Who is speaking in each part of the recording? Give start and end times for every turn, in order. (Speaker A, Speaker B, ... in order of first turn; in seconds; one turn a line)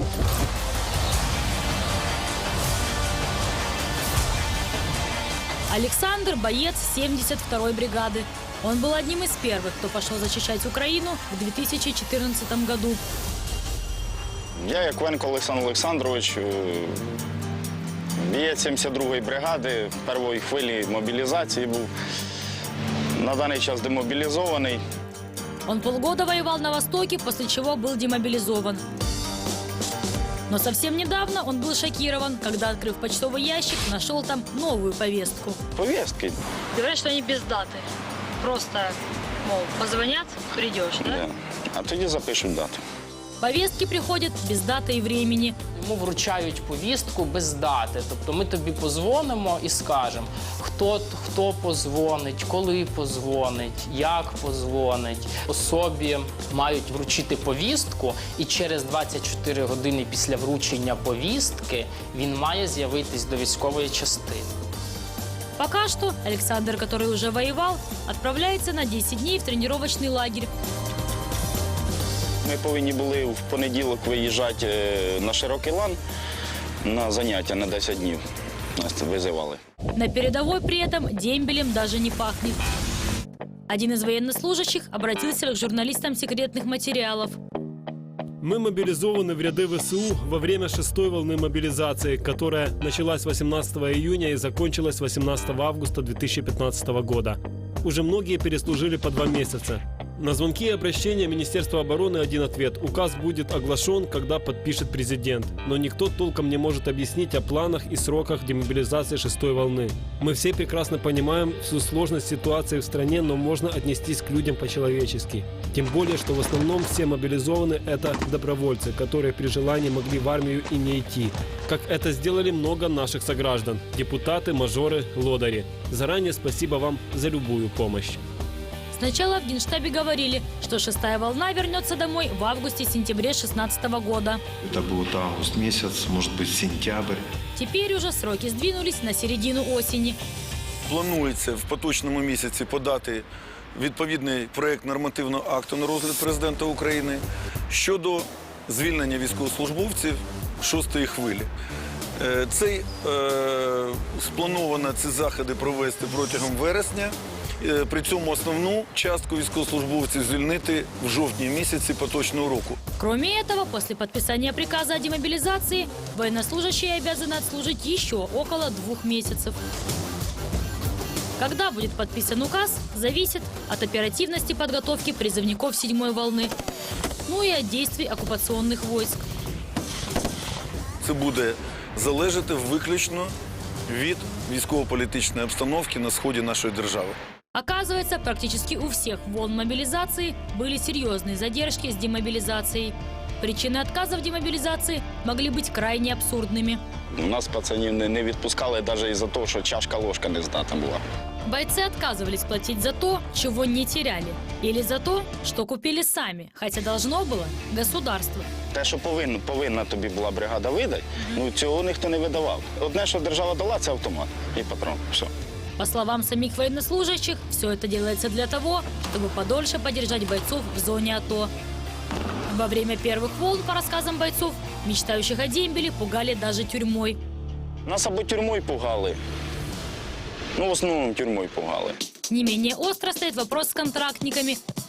Speaker A: 5.7-13.0
Speaker B: 14.6-17.0
Speaker B: 18.2-21.9
Speaker B: 23.1-24.8
Speaker A: 25.7-28.8
Speaker A: 30.5-35.6
Speaker B: 35.7-36.4
Speaker A: 36.7-37.8
Speaker A: 38.4-41.2
Speaker B: 41.0-42.8
Speaker A: 43.4-45.6
Speaker C: 45.7-64.5
Speaker A: 65.6-70.5
Speaker B: 72.4-76.0
Speaker B: 76.8-78.2
Speaker B: 78.8-79.6
Speaker A: 80.0-82.6
Speaker A: 83.7-87.4
Speaker D: 88.4-128.2
Speaker A: 128.9-134.4
Speaker E: 134.6-137.2
Speaker A: 137.6-140.2
Speaker F: 140.8-151.5
Speaker F: 152.2-162.8
Speaker A: 163.0-169.6
Speaker A: 171.4-176.5
Speaker A: 177.3-179.2
Speaker F: 181.0-183.3
Speaker F: 183.9-187.2
Speaker A: 187.5-196.8
Speaker B: 197.2-201.0
Speaker A: 201.4-208.4
Speaker B: 208.7-215.3
Speaker A: 215.8-221.5
Speaker A: 222.5-227.2
Speaker B: 227.8-229.2
Speaker B: 230.6-231.9
Speaker A: 232.3-234.6